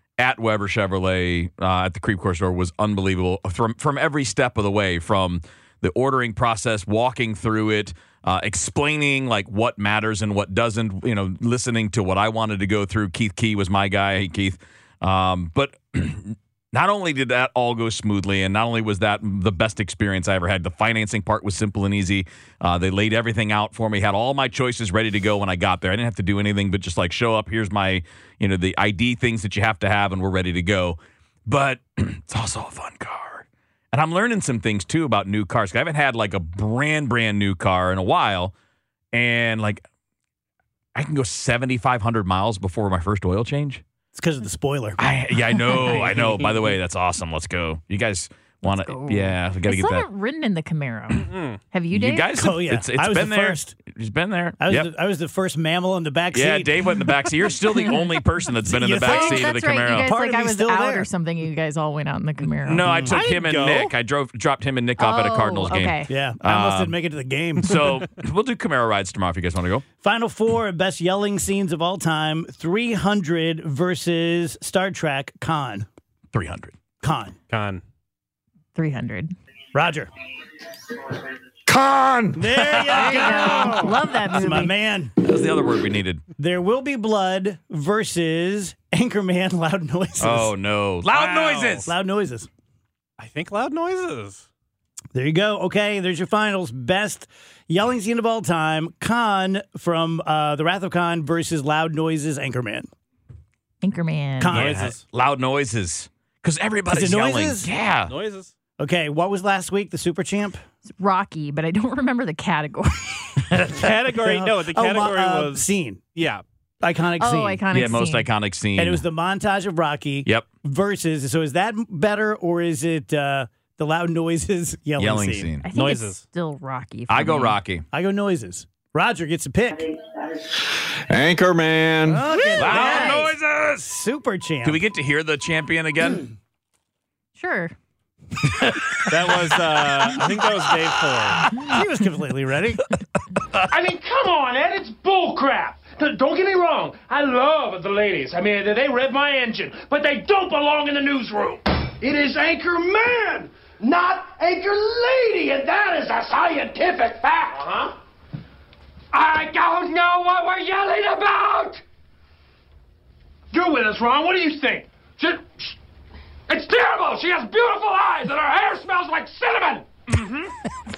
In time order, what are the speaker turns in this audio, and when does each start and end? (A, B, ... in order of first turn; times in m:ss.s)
0:00.2-0:38.5 A
0:39.1-0:39.8 A
0:40.9-0:43.8 A
0:44.1-0:45.0 B
0:45.0-0:50.0 A
0:45.7-0:46.8 B
0:45.7-0:46.0 C
0:48.6-0:52.3 C
0:51.3-0:51.6 D
0:51.9-0:54.9 A
0:52.3-0:53.8 B
0:54.6-0:56.9 B
0:56.3-1:00.1 A
0:58.6-1:01.1 B
0:59.0-1:03.0 C
1:02.6-1:07.0 A
1:02.8-1:03.2 B
1:03.1-1:03.9 D
1:05.0-1:06.1 C
1:06.1-1:07.8 B
1:07.6-1:09.8 A
1:10.0-1:15.9 B
1:16.3-1:16.7 A
1:17.0-1:17.3 B
1:17.5-1:17.8 D
1:18.8-1:19.3 C
1:19.7-1:20.1 B
1:21.7-1:22.5 E
1:22.3-1:25.1 B
1:22.7-1:23.8 A
1:22.9-1:24.7 C
1:25.2-1:26.2 A
1:26.4-1:30.5 B
1:30.2-1:31.9 A
1:31.1-1:31.8 D
1:31.8-1:32.5 B
1:33.2-1:34.4 D
1:35.1-1:42.9 B
1:43.8-1:44.7 C
1:44.4-1:44.7 B
1:44.5-1:45.0 D
1:44.5-1:48.1 A
1:46.9-1:47.7 B
1:48.1-1:48.5 D
1:48.8-1:50.6 B
1:51.0-1:53.4 C
1:53.5-1:53.8 A
1:53.7-1:56.4 D
1:54.2-1:56.0 B
1:56.8-1:57.7 B
1:57.2-1:58.3 C
1:57.7-1:59.0 A
1:58.8-2:05.5 B
2:05.0-2:05.6 A
2:05.6-2:07.6 C
2:05.7-2:06.2 D
2:07.1-2:07.8 A
2:07.9-2:09.9 B
2:11.1-2:12.3 E
2:12.0-2:14.8 B
2:12.5-2:13.9 A
2:14.6-2:16.3 A
2:17.4-2:17.7 C
2:18.5-2:19.1 A
2:19.1-2:21.4 D
2:21.4-2:21.7 A
2:21.7-2:22.8 B
2:23.7-2:37.9 F
2:39.1-2:41.8 F
2:43.5-2:45.8 F
2:46.5-2:50.5 F